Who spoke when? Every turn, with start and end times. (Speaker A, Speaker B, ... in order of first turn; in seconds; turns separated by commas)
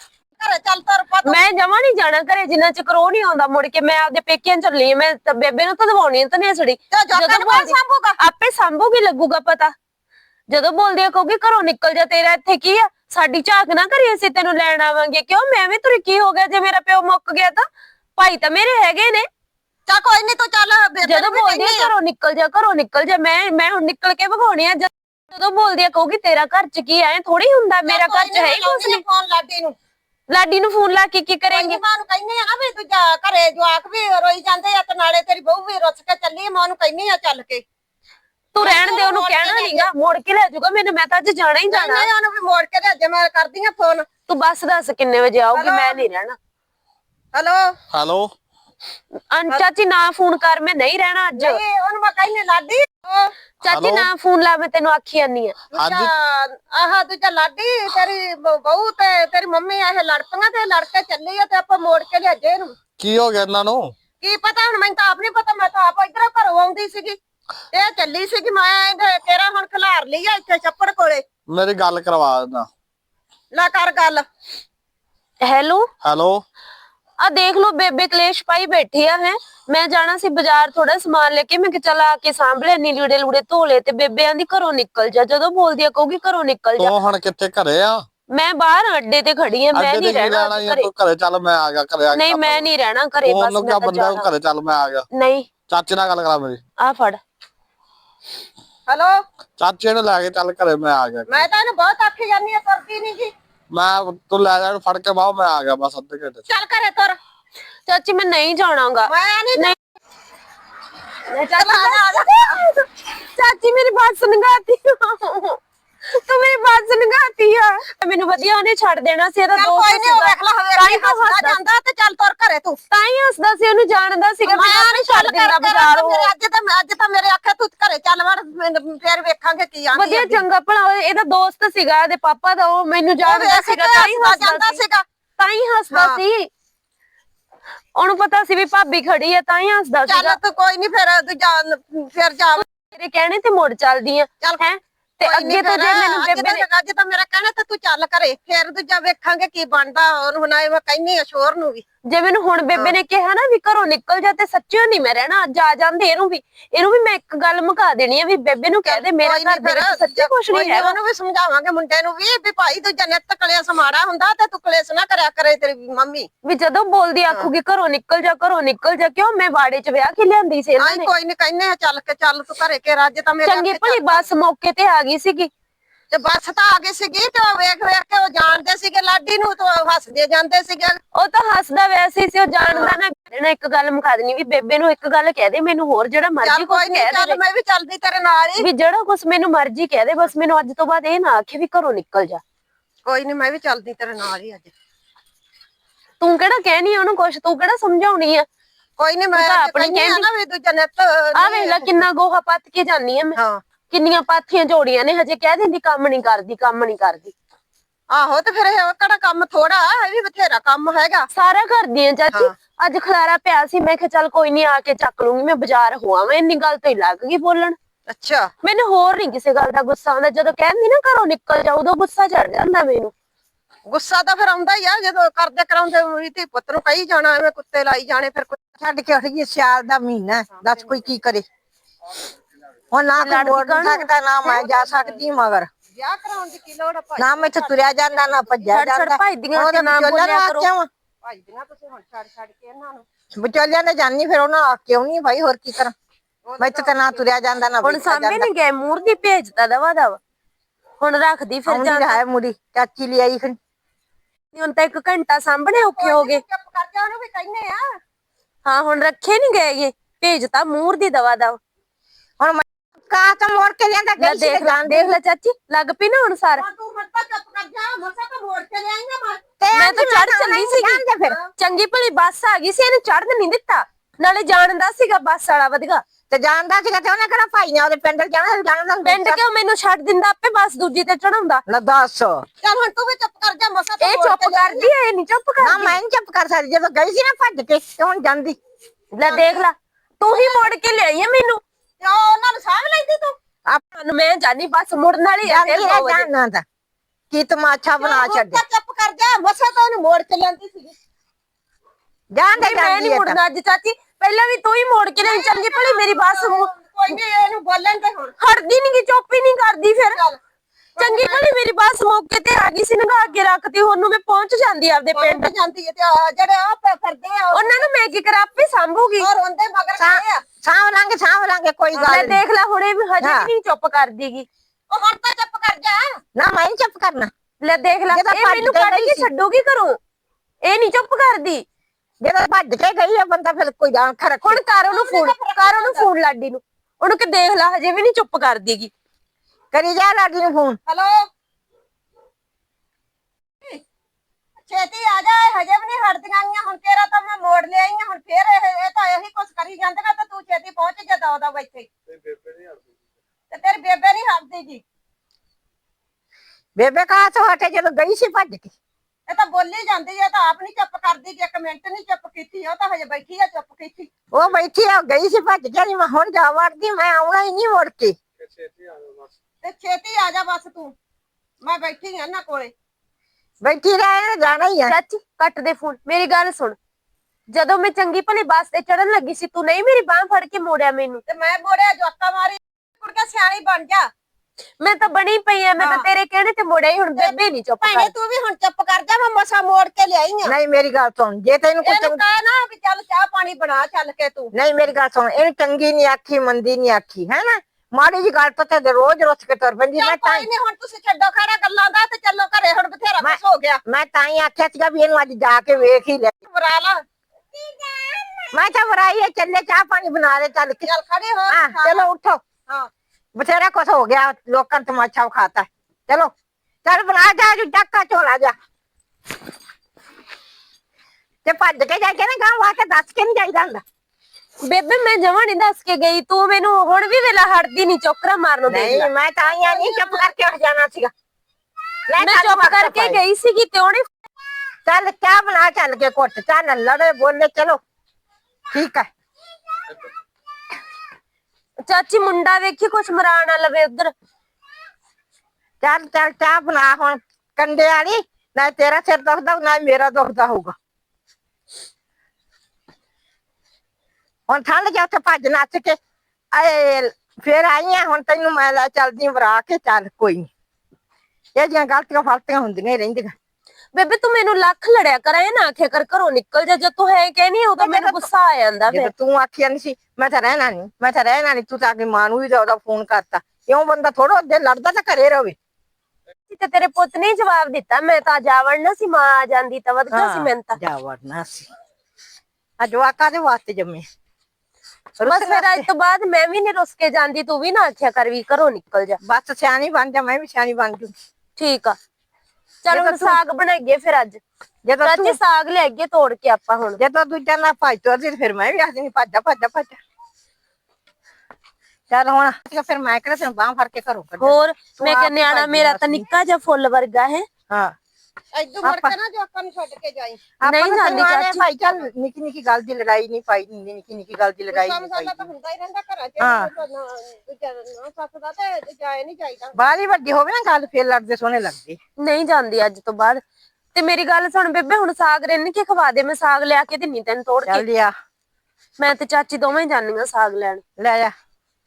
Speaker A: 0.4-1.4, Speaker B: 1.2-9.7, Speaker A: 6.9-8.2, Speaker B: 10.5-17.6, Speaker B: 18.2-19.3, Speaker A: 19.9-21.9, Speaker B: 21.0-29.0, Speaker A: 27.9-29.8, Speaker B: 30.3-31.8, Speaker A: 31.5-37.6, Speaker B: 38.5-42.1, Speaker A: 38.6-39.9, Speaker A: 41.7-44.1, Speaker B: 44.3-46.4, Speaker A: 45.5-46.1, Speaker A: 47.3-47.8, Speaker C: 47.9-48.3, Speaker B: 49.3-51.6, Speaker A: 51.4-53.3, Speaker B: 53.6-55.6, Speaker C: 53.7-54.1, Speaker A: 55.7-62.8, Speaker C: 55.8-56.1, Speaker C: 63.0-63.9, Speaker A: 64.2-67.2, Speaker A: 67.7-71.2, Speaker C: 71.5-72.7, Speaker A: 73.5-74.2, Speaker B: 75.4-75.9, Speaker C: 76.0-76.4, Speaker B: 77.2-86.9, Speaker C: 86.8-88.0, Speaker B: 88.3-90.9, Speaker C: 89.7-92.7, Speaker B: 92.1-94.3, Speaker C: 93.2-95.0, Speaker B: 95.1-95.5, Speaker C: 95.7-96.6, Speaker B: 96.8-97.2, Speaker A: 98.9-99.2, Speaker C: 99.6-101.5, Speaker A: 101.3-103.3, Speaker C: 103.7-106.4, Speaker A: 106.5-107.2, Speaker B: 107.9-109.8, Speaker A: 109.1-109.8, Speaker B: 111.3-121.6, Speaker A: 111.5-112.6, Speaker A: 119.5-122.8, Speaker B: 122.9-126.3, Speaker A: 124.5-130.4, Speaker B: 129.9-134.8, Speaker A: 133.2-135.1, Speaker B: 135.4-136.5, Speaker A: 135.9-136.2, Speaker B: 137.9-140.4, Speaker A: 140.1-142.7, Speaker B: 142.6-146.6, Speaker A: 145.2-151.8, Speaker B: 152.1-161.0, Speaker A: 158.9-166.3, Speaker B: 166.4-171.1, Speaker A: 170.8-174.3, Speaker B: 173.4-175.5, Speaker A: 176.1-181.0, Speaker B: 181.2-187.4, Speaker A: 182.7-183.0, Speaker A: 186.4-188.7, Speaker B: 188.6-192.4, Speaker A: 193.1-194.7, Speaker B: 196.2-198.5, Speaker A: 199.0-202.0, Speaker B: 199.4-200.3, Speaker B: 201.3-203.4, Speaker A: 203.4-203.6, Speaker B: 203.9-207.3, Speaker A: 208.1-211.3, Speaker B: 211.3-217.8, Speaker A: 218.1-218.5, Speaker B: 218.6-223.1, Speaker A: 223.9-228.6, Speaker D: 228.8-231.4, Speaker A: 230.6-231.0, Speaker D: 232.9-235.7, Speaker B: 233.2-234.1, Speaker A: 234.4-235.2, Speaker A: 235.9-238.7, Speaker D: 237.2-240.9, Speaker B: 238.7-240.7, Speaker A: 241.2-243.1, Speaker D: 243.3-245.9, Speaker A: 246.4-247.2, Speaker D: 246.6-248.5, Speaker B: 247.8-250.2, Speaker B: 251.0-252.2, Speaker D: 251.7-253.6, Speaker B: 254.5-256.4, Speaker A: 255.8-257.9, Speaker B: 258.6-261.6, Speaker D: 262.4-265.2, Speaker B: 264.2-266.6, Speaker A: 266.6-269.4, Speaker D: 269.6-271.4, Speaker B: 269.7-271.0, Speaker B: 271.6-276.0, Speaker D: 276.3-279.4, Speaker B: 279.1-281.6, Speaker D: 281.7-282.4, Speaker A: 282.6-284.9, Speaker B: 284.0-286.0, Speaker D: 285.6-288.6, Speaker B: 289.1-291.6, Speaker A: 289.3-289.6, Speaker A: 292.0-293.4, Speaker B: 293.9-296.3, Speaker D: 295.4-296.6, Speaker D: 297.3-298.6, Speaker A: 298.0-301.0, Speaker D: 302.3-303.4, Speaker B: 302.6-306.7, Speaker A: 305.2-308.4, Speaker B: 308.4-310.2, Speaker A: 310.1-310.4, Speaker A: 311.0-311.5, Speaker B: 311.0-315.5, Speaker A: 315.1-317.9, Speaker B: 317.5-319.3, Speaker A: 319.2-320.4, Speaker D: 320.0-322.4, Speaker B: 322.0-324.5, Speaker D: 323.2-323.5, Speaker A: 324.9-326.2, Speaker D: 326.4-327.3, Speaker B: 327.6-330.0, Speaker D: 328.1-329.3, Speaker B: 330.6-331.6, Speaker D: 332.2-334.6, Speaker B: 334.4-338.9, Speaker A: 334.8-336.1, Speaker D: 339.7-340.8, Speaker A: 340.9-341.3, Speaker A: 344.6-351.9, Speaker C: 352.3-352.7, Speaker A: 353.5-354.8, Speaker D: 356.8-358.7, Speaker A: 359.3-364.1, Speaker D: 364.3-368.2, Speaker C: 368.6-369.2, Speaker A: 369.6-370.9, Speaker A: 371.6-372.7, Speaker D: 373.6-375.0, Speaker B: 374.9-376.8, Speaker B: 377.5-381.2, Speaker A: 381.3-384.1, Speaker B: 384.8-388.1, Speaker A: 385.8-386.0, Speaker A: 387.2-390.5, Speaker D: 390.4-392.2, Speaker A: 391.8-394.5, Speaker D: 394.5-400.5, Speaker A: 400.0-403.8, Speaker D: 403.2-406.3, Speaker A: 406.5-407.0, Speaker A: 407.5-408.5, Speaker D: 408.5-410.9, Speaker A: 410.8-412.1, Speaker D: 411.5-412.4, Speaker D: 413.4-416.3, Speaker D: 416.9-418.5, Speaker D: 421.4-423.8, Speaker B: 424.6-429.1, Speaker D: 428.7-431.1, Speaker A: 429.5-430.2, Speaker D: 432.1-433.2, Speaker B: 432.2-434.1, Speaker D: 434.9-437.8, Speaker D: 438.7-439.1, Speaker B: 441.9-444.1, Speaker D: 445.8-450.7, Speaker D: 454.5-456.0, Speaker D: 456.5-460.5, Speaker D: 461.6-463.4, Speaker B: 463.9-469.1, Speaker D: 467.8-468.3, Speaker D: 468.9-475.6, Speaker B: 476.5-480.8, Speaker D: 480.1-481.7, Speaker D: 482.8-484.1, Speaker D: 485.2-485.9, Speaker B: 485.2-489.2, Speaker D: 489.2-491.1, Speaker B: 491.6-492.0, Speaker B: 492.8-494.4, Speaker D: 492.9-493.4, Speaker D: 494.9-495.4, Speaker B: 495.0-497.0, Speaker D: 497.0-500.0, Speaker D: 502.1-506.2, Speaker B: 504.4-507.4, Speaker A: 508.5-510.4, Speaker D: 508.8-509.2, Speaker D: 510.6-515.5, Speaker B: 510.6-511.6, Speaker A: 514.7-519.8, Speaker D: 516.4-516.7, Speaker D: 519.7-522.0, Speaker B: 522.2-523.4, Speaker B: 524.0-527.8, Speaker D: 527.7-528.1, Speaker B: 529.0-530.8, Speaker D: 531.0-531.3